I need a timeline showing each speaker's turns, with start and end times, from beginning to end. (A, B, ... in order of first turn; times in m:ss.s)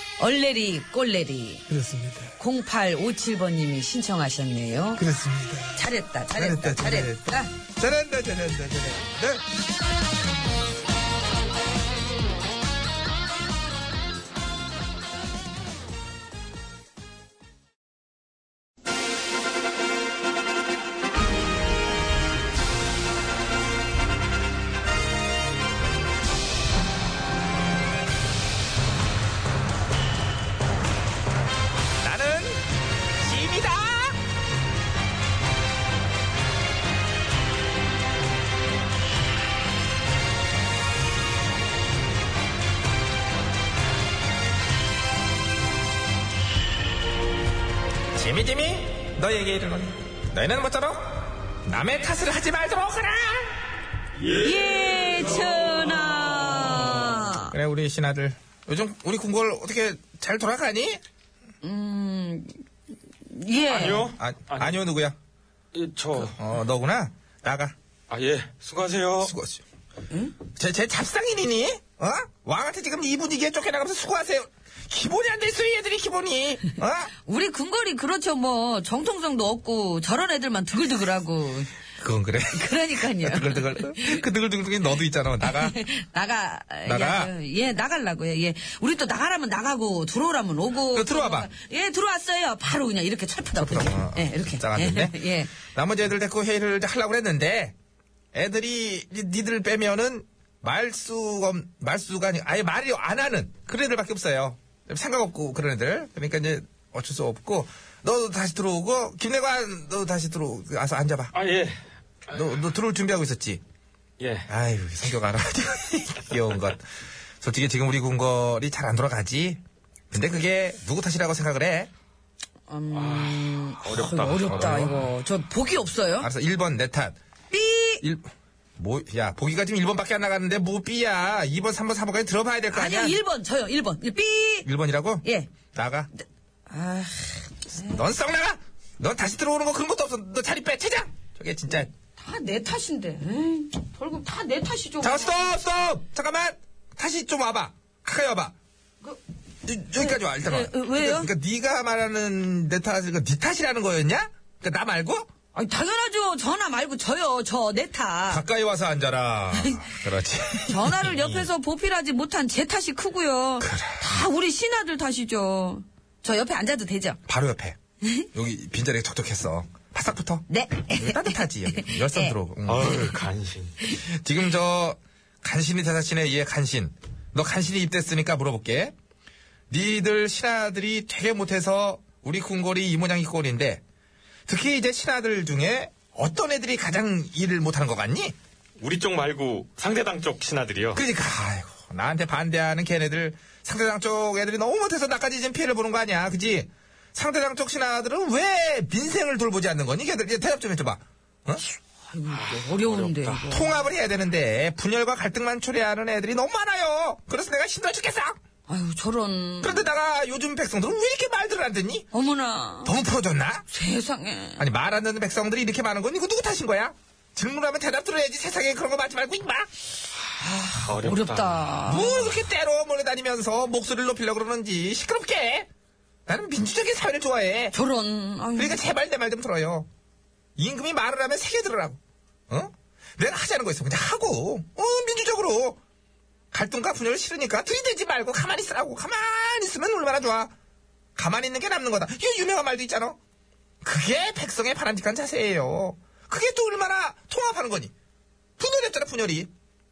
0:00.2-0:01.6 A
0:01.7-0:02.4 B
0:02.4-0:05.0 A
0:05.0-0:09.4 B
0:05.8-0:07.5 A
0:32.0-0:32.6 C
0:33.2-0:34.2 C
0:48.2-0:53.6 C
0:54.4-0:57.6 A
0:57.5-1:01.0 C
1:01.6-1:02.6 A
1:03.2-1:04.1 A
1:03.7-1:04.8 D
1:04.2-1:05.2 C
1:05.7-1:06.4 D
1:06.1-1:07.8 C
1:08.1-1:09.3 D
1:09.2-1:09.6 C
1:10.6-1:17.1 C
1:17.2-1:21.7 A
1:22.0-1:25.8 C
1:22.5-1:24.2 A
1:25.4-1:35.6 A
1:26.9-1:27.3 C
1:30.9-1:31.5 C
1:33.6-1:37.8 C
1:38.3-1:51.4 C
1:51.3-1:51.8 D
1:52.3-1:53.6 C
1:54.2-1:54.5 D
1:54.5-1:56.9 C
1:57.4-1:59.6 C
2:00.1-2:01.9 C
2:02.7-2:06.3 A
2:02.9-2:04.9 D
2:04.2-2:04.9 C
2:06.2-2:07.2 C
2:07.5-2:08.0 A
2:08.0-2:13.2 C
2:12.7-2:14.7 A
2:14.6-2:16.1 C
2:15.2-2:15.5 A
2:16.7-2:18.0 A
2:17.8-2:21.9 C
2:22.2-2:25.5 A
2:25.0-2:28.5 C
2:29.7-2:35.3 C
2:29.9-2:31.3 A
2:35.5-2:38.4 A
2:38.3-2:41.5 C
2:39.5-2:40.0 A
2:40.7-2:47.2 A
2:43.6-2:44.0 C
2:47.3-2:47.8 C
2:48.0-2:48.3 A
2:48.3-2:53.2 C
2:50.5-2:52.4 A
2:52.7-2:53.8 D
2:53.9-2:59.0 C
2:59.7-3:03.8 C
3:04.5-3:08.4 C
3:08.8-3:11.0 D
3:10.9-3:21.6 C
3:21.6-3:23.7 A
3:22.4-3:23.5 D
3:23.5-3:28.4 C
3:28.7-3:29.9 A
3:29.6-3:32.1 C
3:32.1-3:33.0 A
3:32.8-3:33.7 C
3:33.7-3:34.7 A
3:34.6-3:39.7 C
3:40.4-3:42.4 A
3:40.8-3:41.6 D
3:41.8-3:45.7 C
3:46.3-3:47.8 C
3:47.7-3:48.8 A
3:48.6-3:49.9 C
3:50.6-3:52.0 C
3:52.5-3:55.8 C
3:56.5-4:00.5 C
4:01.2-4:03.2 C
4:03.8-4:07.9 C
4:08.6-4:09.5 C